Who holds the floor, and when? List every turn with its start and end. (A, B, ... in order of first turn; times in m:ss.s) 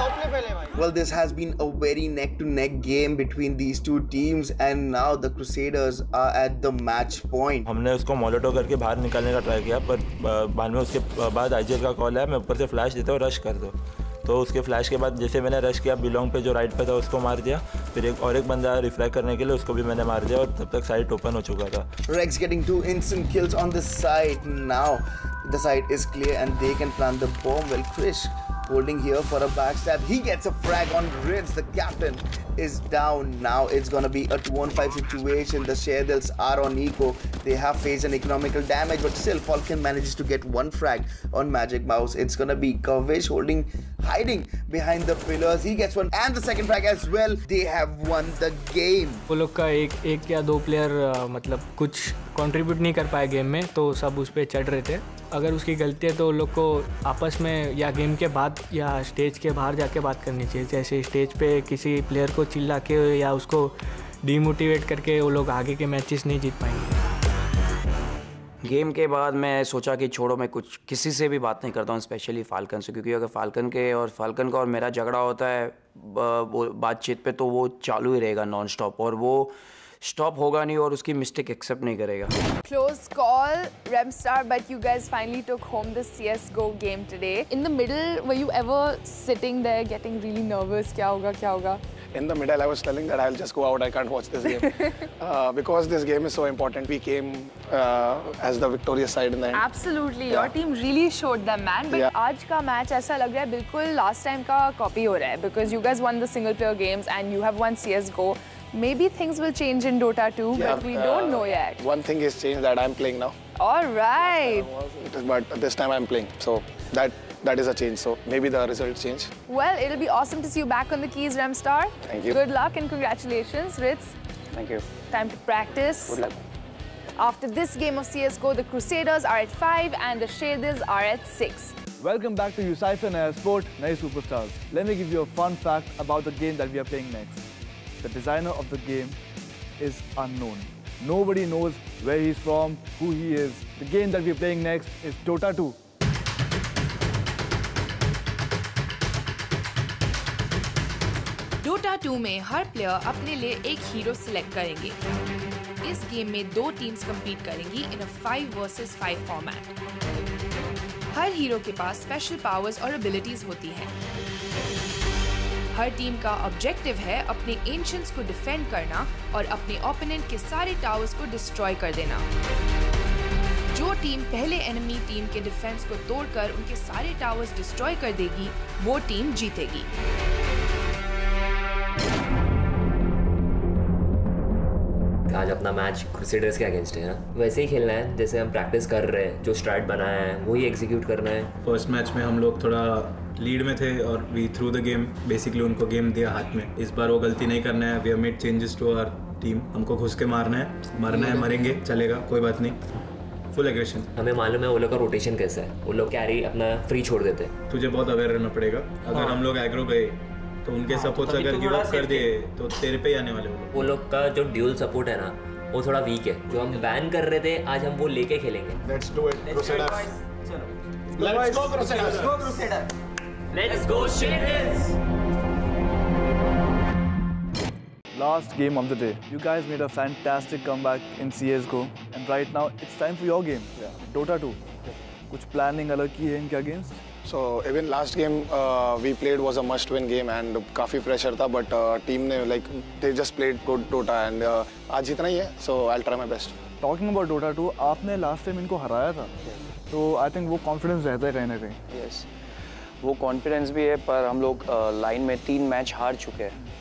0:00.7-0:07.7 A
0:07.7-0:21.9 B
0:22.1-0:49.2 A
0:49.3-1:03.7 C
1:04.2-1:06.9 C
1:08.6-1:22.4 D
1:22.6-1:31.8 E
1:32.2-1:39.6 F
1:34.6-1:35.1 E
1:39.5-1:51.8 E
1:50.5-1:53.4 F
1:53.6-1:54.7 E
1:54.8-1:59.3 F
1:59.5-2:04.2 E
2:02.1-2:02.4 F
2:04.5-2:04.9 D
2:05.1-2:06.2 E
2:06.1-2:06.4 D
2:07.2-2:11.8 E
2:12.0-2:17.5 G
2:18.0-2:19.2 G
2:19.8-2:25.8 G
2:31.6-2:35.0 H
2:35.8-2:39.7 H
2:41.1-2:43.9 H
2:45.8-2:52.2 H
2:53.7-2:59.9 H
3:05.3-3:11.5 I
3:11.6-3:22.8 J
3:23.5-3:24.1 J
3:24.2-3:27.6 I
3:27.7-3:33.8 J
3:29.2-3:29.4 I
3:31.0-3:32.2 I
3:33.7-3:38.8 I
3:38.9-3:40.0 F
3:39.5-3:40.2 I
3:41.3-3:42.3 I
3:43.5-3:44.7 I
3:48.1-3:54.6 G
3:55.3-3:57.0 G
3:57.2-4:06.6 F
4:06.8-4:09.3 G
4:09.9-4:11.8 G
4:11.9-4:12.3 D
4:13.0-4:16.6 D